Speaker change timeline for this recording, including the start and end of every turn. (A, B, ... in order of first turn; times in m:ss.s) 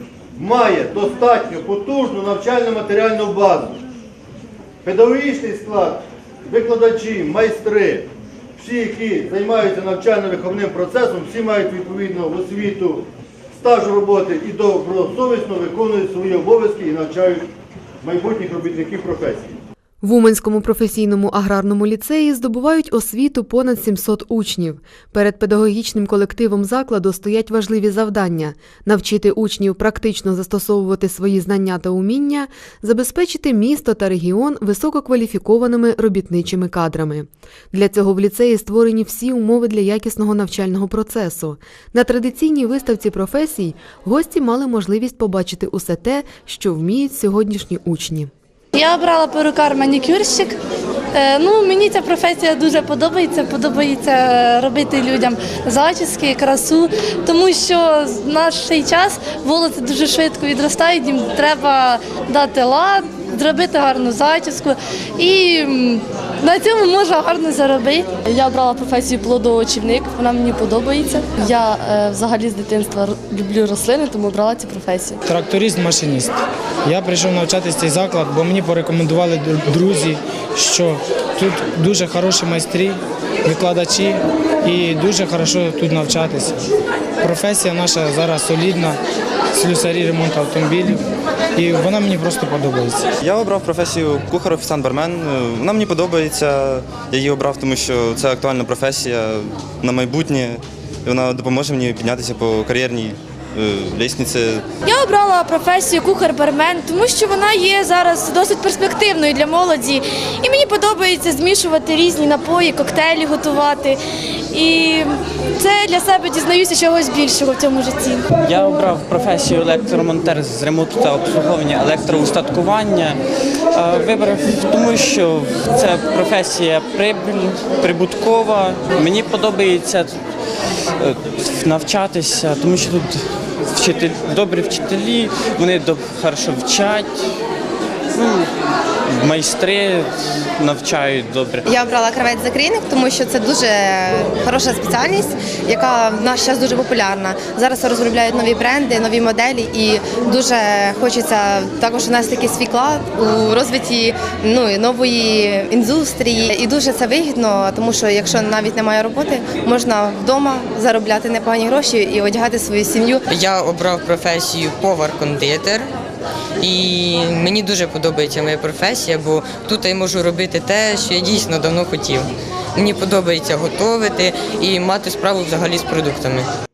0:00.4-0:03.8 A
0:04.8-0:17.5 A
0:18.0-0:19.6 A
0:20.0-0:48.3 B
0:48.8-0:50.6 C
0:51.1-1:08.2 C
1:08.2-1:15.2 D
1:15.3-1:16.4 E
1:16.9-1:26.6 E
1:27.2-1:29.0 E
1:29.5-1:31.0 E
1:31.6-1:33.1 E
1:33.2-1:44.6 F
1:44.8-1:54.0 G
1:54.5-1:58.3 G
1:58.4-2:03.2 H
2:03.7-2:10.2 H
2:11.0-2:17.2 H
2:18.1-2:18.5 H
2:19.1-2:21.7 H
2:21.6-2:43.3 I
2:43.3-2:45.9 J
2:46.6-2:56.5 J